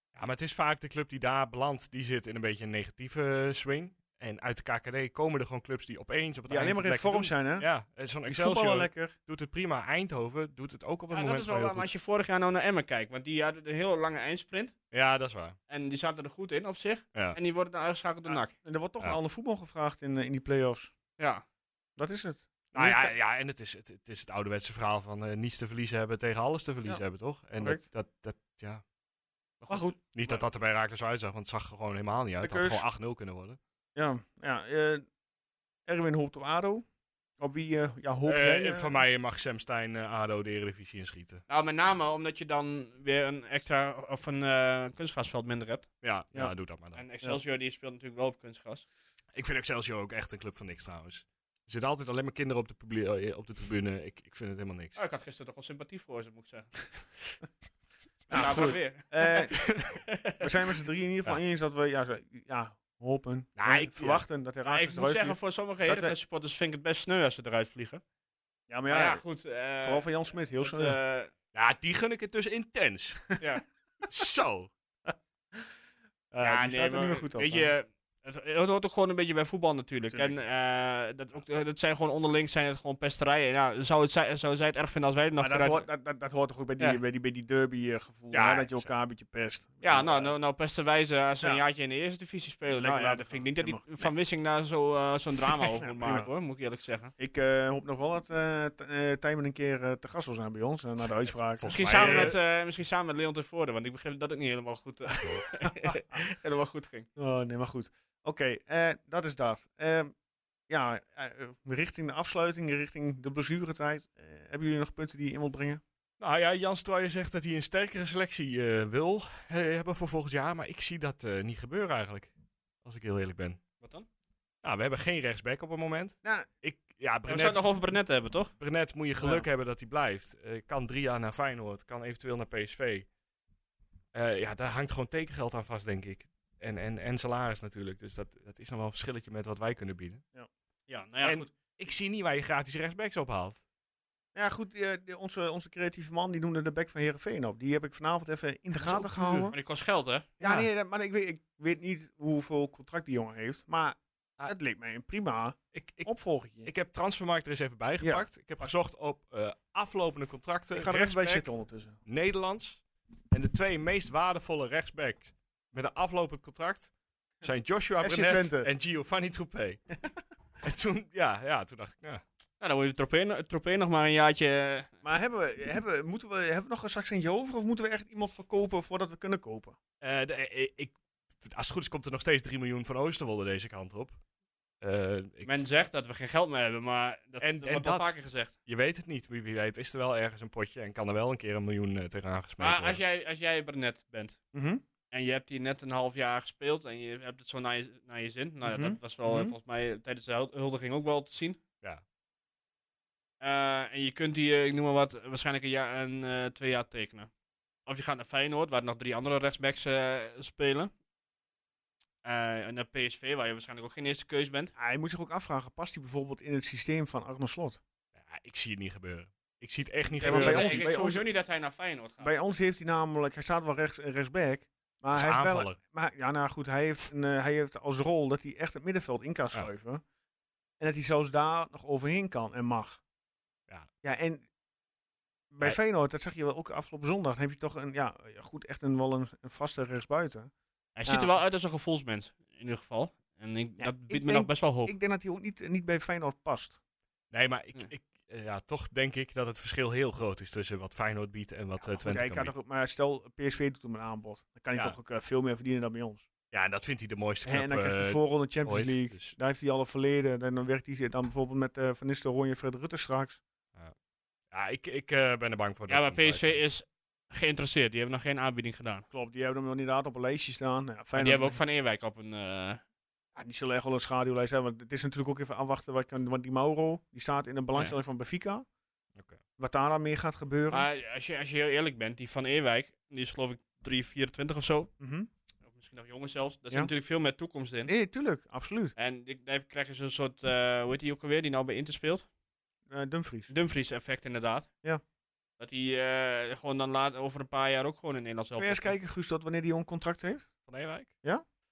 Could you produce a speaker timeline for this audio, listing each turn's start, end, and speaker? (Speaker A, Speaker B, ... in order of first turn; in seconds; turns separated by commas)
Speaker A: 0.1-11.9, Speaker B: 6.5-7.7, Speaker B: 8.3-9.2, Speaker C: 11.1-14.7, Speaker A: 14.9-15.6, Speaker C: 15.7-18.5, Speaker B: 18.3-20.9, Speaker C: 21.2-21.4, Speaker B: 22.0-23.1, Speaker A: 22.7-28.8, Speaker B: 27.6-27.9, Speaker C: 29.6-30.4, Speaker A: 30.0-33.6, Speaker B: 32.4-32.8, Speaker B: 34.0-35.1, Speaker B: 35.9-36.9, Speaker B: 37.4-39.0, Speaker A: 38.2-41.4, Speaker C: 41.5-45.9, Speaker A: 46.0-47.0, Speaker C: 47.0-48.9, Speaker A: 49.3-55.0, Speaker C: 55.0-56.7, Speaker C: 58.3-59.4, Speaker B: 58.3-59.7, Speaker C: 60.1-60.4, Speaker B: 60.4-66.1, Speaker A: 63.6-64.2, Speaker C: 64.7-68.0, Speaker B: 68.7-69.2, Speaker C: 68.9-70.1, Speaker B: 69.8-71.0, Speaker C: 70.6-71.3, Speaker A: 71.5-73.3, Speaker A: 74.0-74.7, Speaker B: 76.3-77.7, Speaker C: 76.4-85.9, Speaker B: 80.1-80.4, Speaker B: 85.4-90.3, Speaker C: 88.3-88.6, Speaker A: 88.3-88.9, Speaker C: 89.8-97.1, Speaker B: 92.7-94.1, Speaker B: 95.7-96.3, Speaker B: 97.2-102.3, Speaker A: 101.2-102.4, Speaker C: 101.7-107.1, Speaker B: 105.7-106.2, Speaker B: 107.2-110.1, Speaker B: 110.7-115.8, Speaker A: 116.2-123.6, Speaker C: 123.8-124.1, Speaker A: 124.6-127.7, Speaker C: 127.3-128.5, Speaker A: 128.6-133.1, Speaker A: 134.1-140.2, Speaker C: 140.9-141.5, Speaker A: 141.2-143.6, Speaker B: 144.3-149.6, Speaker A: 148.7-149.5, Speaker C: 149.5-150.3, Speaker A: 150.4-150.7, Speaker B: 150.4-156.7, Speaker A: 155.7-156.1, Speaker A: 156.6-161.5, Speaker B: 158.0-158.7, Speaker B: 160.7-162.0, Speaker A: 162.1-166.9, Speaker A: 167.4-169.8, Speaker B: 168.0-168.7, Speaker A: 170.6-172.2, Speaker C: 172.6-174.9, Speaker B: 175.0-179.8, Speaker A: 180.0-184.2, Speaker A: 184.8-185.6, Speaker C: 185.4-188.5, Speaker A: 187.4-193.0, Speaker C: 192.6-194.4, Speaker B: 194.5-194.8, Speaker C: 195.1-201.6, Speaker B: 198.6-199.5, Speaker C: 203.4-207.3, Speaker C: 207.9-210.9, Speaker C: 212.2-214.7, Speaker B: 214.8-217.8, Speaker A: 218.1-220.8, Speaker B: 220.2-221.2, Speaker C: 220.2-222.3, Speaker B: 222.2-230.0, Speaker A: 225.1-225.8, Speaker B: 230.8-233.0, Speaker B: 234.0-234.4, Speaker B: 235.5-240.5, Speaker C: 240.9-244.9, Speaker B: 241.1-241.3, Speaker B: 243.8-246.8, Speaker A: 247.3-252.5, Speaker B: 251.8-256.3, Speaker A: 256.5-259.4, Speaker B: 257.4-263.4, Speaker A: 264.5-266.6, Speaker C: 265.9-269.1, Speaker B: 269.1-271.6, Speaker C: 271.1-272.8, Speaker B: 273.4-278.7, Speaker B: 279.6-280.9, Speaker C: 280.7-284.9, Speaker B: 285.0-285.3, Speaker C: 285.6-287.9, Speaker B: 287.9-288.9, Speaker C: 288.9-292.3, Speaker B: 292.9-293.5, Speaker C: 293.5-294.7, Speaker C: 295.6-298.9, Speaker B: 298.6-300.5, Speaker A: 300.7-301.1